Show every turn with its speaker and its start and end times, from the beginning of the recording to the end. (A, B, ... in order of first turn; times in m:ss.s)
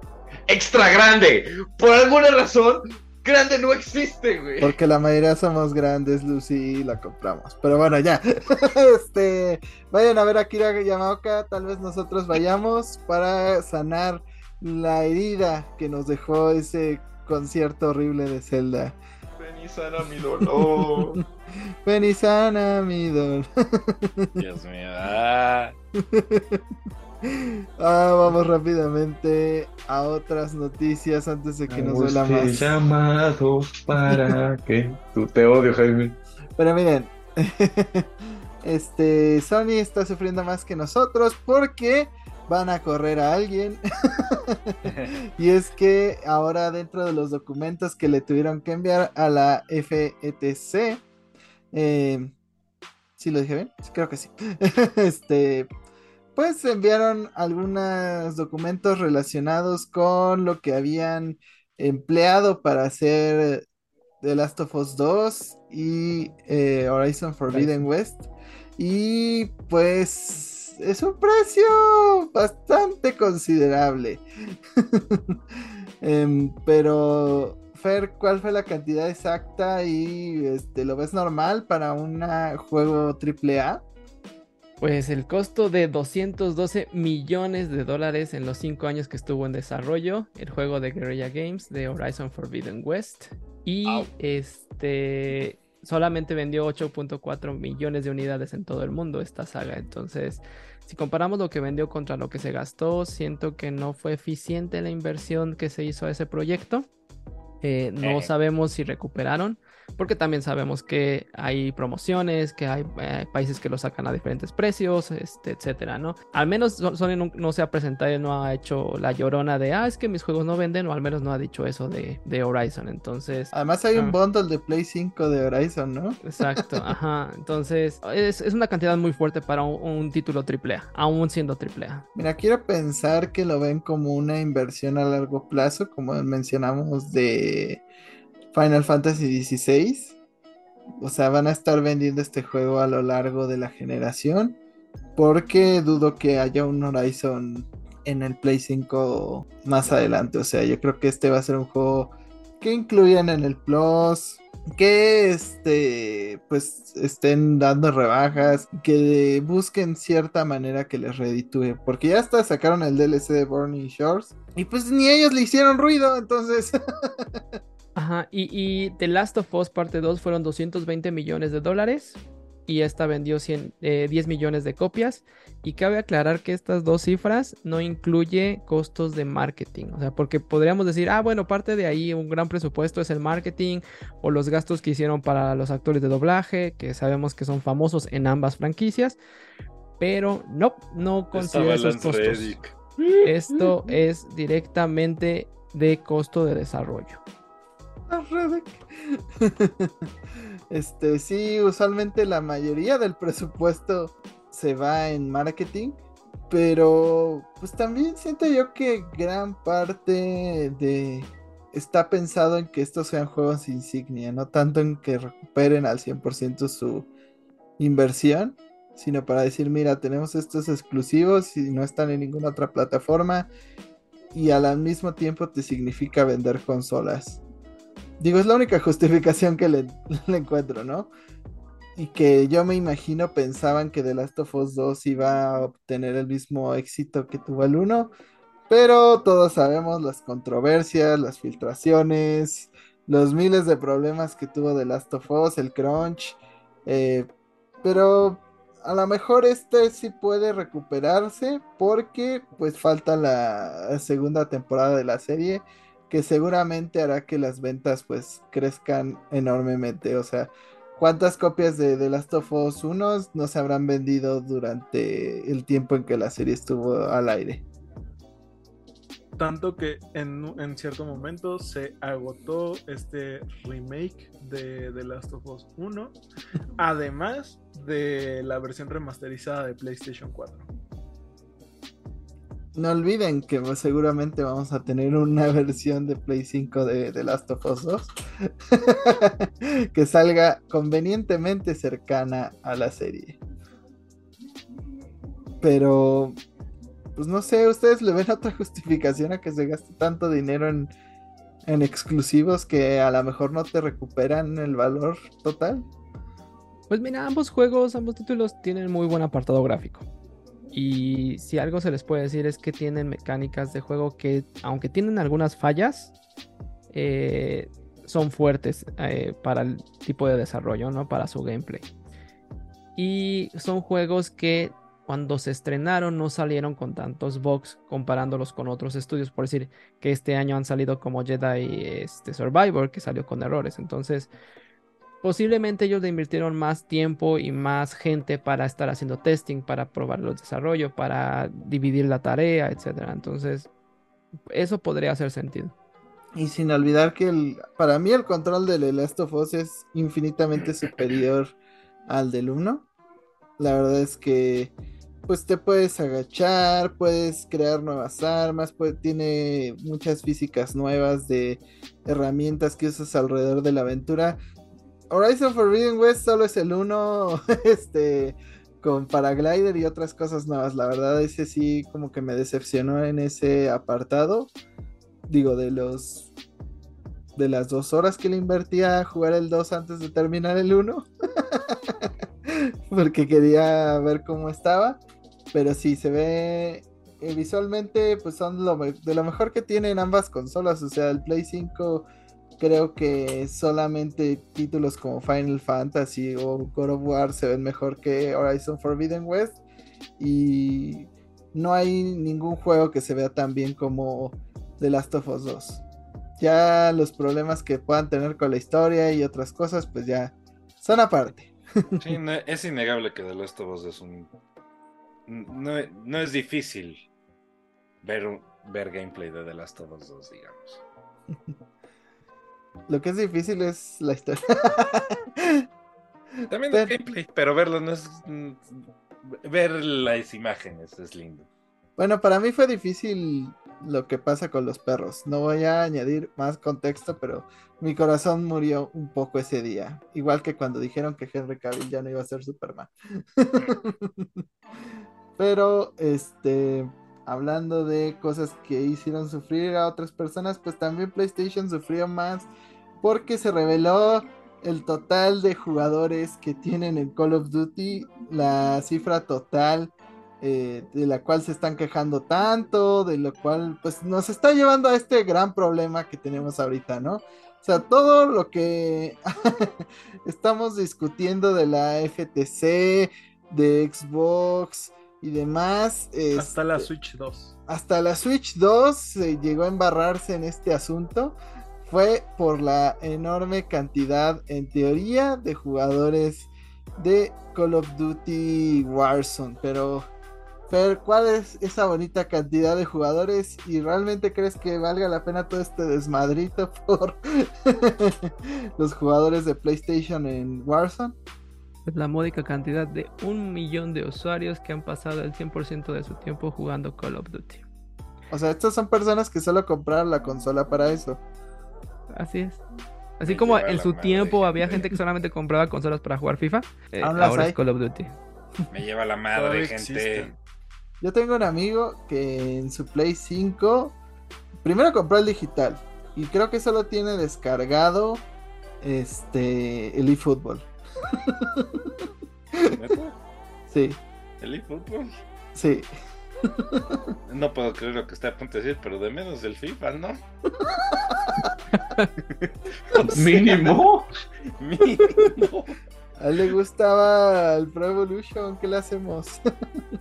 0:00.5-0:04.8 A
0:04.6-0:19.0 B
0:19.4-0:21.2 A
0:20.6-0:21.2 B
0:21.8-0:24.4 B
0:24.4-0:25.8 C
0:26.1-0:26.6 B
0:27.2-0:32.8 B
0:31.7-0:36.2 A
0:36.6-0:38.1 B
0:38.6-0:51.0 B
0:51.7-0:52.3 B
0:53.2-0:55.7 B
0:56.4-1:03.6 B
1:04.2-1:14.2 B
1:14.8-1:15.4 B
1:16.0-1:23.8 B
1:24.8-1:46.9 D
1:47.6-2:04.2 D
1:48.0-1:48.3 C
2:03.5-2:06.8 B
2:06.2-2:12.0 D
2:12.1-2:17.8 B
2:18.5-2:20.2 B
2:21.0-2:24.6 B
2:25.2-2:47.4 B
2:47.9-3:09.2 D
3:10.0-3:12.6 D
3:11.3-3:12.8 C
3:13.0-3:13.7 A
3:13.2-3:17.2 D
3:18.1-3:19.9 B
3:20.7-3:26.0 B
3:26.5-3:37.1 B
3:37.8-3:43.5 B
3:44.3-3:47.4 B
3:48.2-3:51.1 B
3:52.0-3:58.1 B
3:58.7-4:07.3 B
4:07.8-4:27.6 B
4:29.4-4:36.2 E
4:36.8-4:40.7 E
4:42.7-4:53.4 B
4:55.6-4:56.4 B
4:57.2-5:00.9 B
5:01.6-5:05.9 B
5:06.9-5:10.0 D
5:10.7-5:16.1 D
5:16.9-5:21.9 D
5:23.0-5:34.3 D
5:35.2-5:43.7 D
5:44.5-5:45.7 D
5:46.4-5:51.5 B
5:52.1-5:52.9 B
5:53.6-5:54.7 B
5:55.3-6:04.4 B
6:05.1-6:14.5 B
6:15.3-6:16.3 B
6:17.4-6:25.0 B
6:25.5-6:32.1 B
6:32.6-6:39.6 B
6:40.2-6:45.8 B
6:46.4-6:52.1 B
6:52.0-6:54.3 C
6:55.3-6:57.0 C
6:58.0-7:00.8 C
7:02.9-7:05.6 B
7:06.5-7:11.5 C
7:12.0-7:24.4 B
7:25.4-7:32.5 B
7:33.0-7:56.8 B
7:56.3-7:57.5 E
7:57.7-8:10.1 B
8:10.7-8:21.2 B
8:21.8-8:27.6 D
8:28.3-8:31.2 B
8:32.1-8:32.6 D
8:33.2-8:38.2 D
8:33.2-8:34.9 C
8:37.0-8:37.6 B
8:38.7-8:40.3 C
8:39.3-8:40.4 E
8:41.0-8:44.0 B
8:44.6-8:48.2 B
8:48.8-8:52.8 B
8:52.7-8:53.2 C
8:53.7-8:54.0 B
8:54.4-8:55.2 C
8:55.5-8:55.9 B
8:56.4-8:57.1 B
8:57.3-9:00.2 C
9:00.6-9:01.5 B
9:02.3-9:03.8 C
9:03.0-9:04.1 A
9:04.6-9:05.8 C
9:05.0-9:05.3 B
9:06.2-9:09.4 B